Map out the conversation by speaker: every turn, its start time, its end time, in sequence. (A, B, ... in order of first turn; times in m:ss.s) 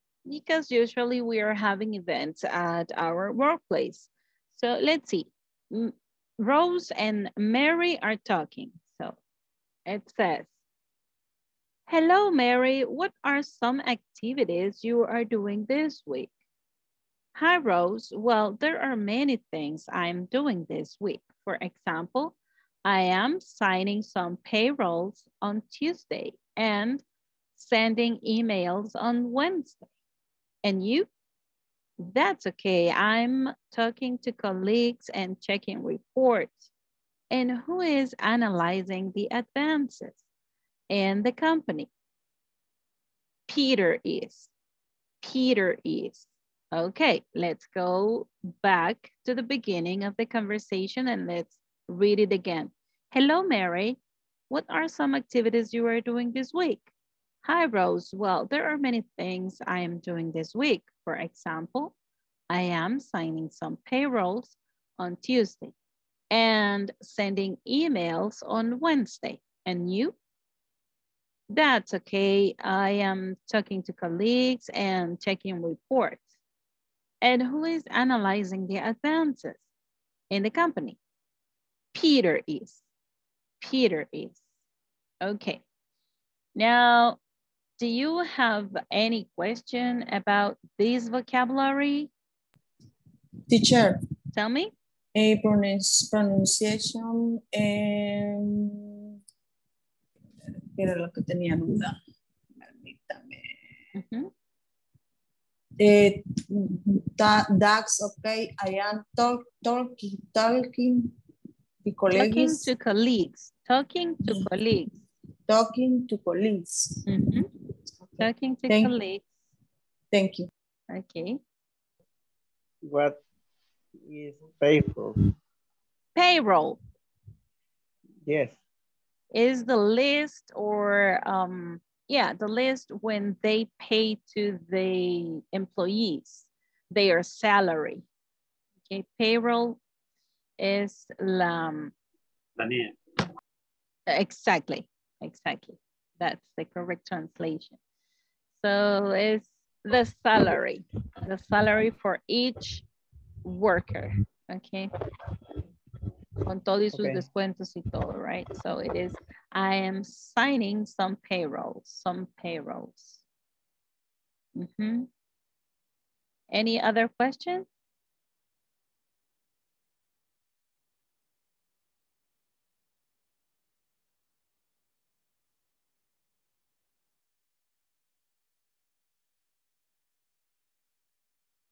0:00.2-0:09.2 A
0:09.8-0:10.5 A
0:11.9-0:16.3 A
0:17.3-0:27.0 A
0:27.6-0:29.8 A
0:30.6-0:31.1 A
0:32.0-0:36.7 A
0:37.3-0:40.2 A
0:40.9-0:41.9 A
0:43.5-0:44.5 A
0:45.2-0:56.9 A
0:57.4-1:01.9 A
1:02.5-1:05.7 A
1:06.3-1:10.1 A
1:11.5-1:16.3 A
1:17.2-1:19.6 A
1:20.3-1:21.0 A
1:21.9-1:22.8 A
1:23.6-1:24.4 A
1:25.2-1:25.6 A
1:26.6-1:27.2 A
1:27.8-1:32.1 A
1:33.5-1:34.0 B
1:34.3-1:34.7 A
1:35.1-1:39.0 B
1:40.8-1:42.0 B
1:42.6-1:43.5 B
1:43.9-1:44.3 A
1:45.8-1:51.1 B
1:51.8-1:52.7 B
1:52.1-1:55.0 A
1:55.5-1:57.0 B
1:57.0-1:57.5 A
1:58.2-1:59.2 A
1:58.7-1:58.9 B
2:00.1-2:00.5 B
2:00.9-2:01.4 A
2:02.8-2:03.2 C
2:04.0-2:05.2 C
2:06.2-2:06.8 A
2:08.2-2:08.6 C
2:09.3-2:18.0 A
2:18.9-2:19.8 A
2:20.6-2:21.9 A
2:24.1-2:27.8 A
2:28.6-2:32.8 A
2:33.4-2:34.9 A
2:36.4-2:43.2 A
2:36.9-2:37.2 C
2:44.6-2:45.1 A
2:46.5-2:47.7 A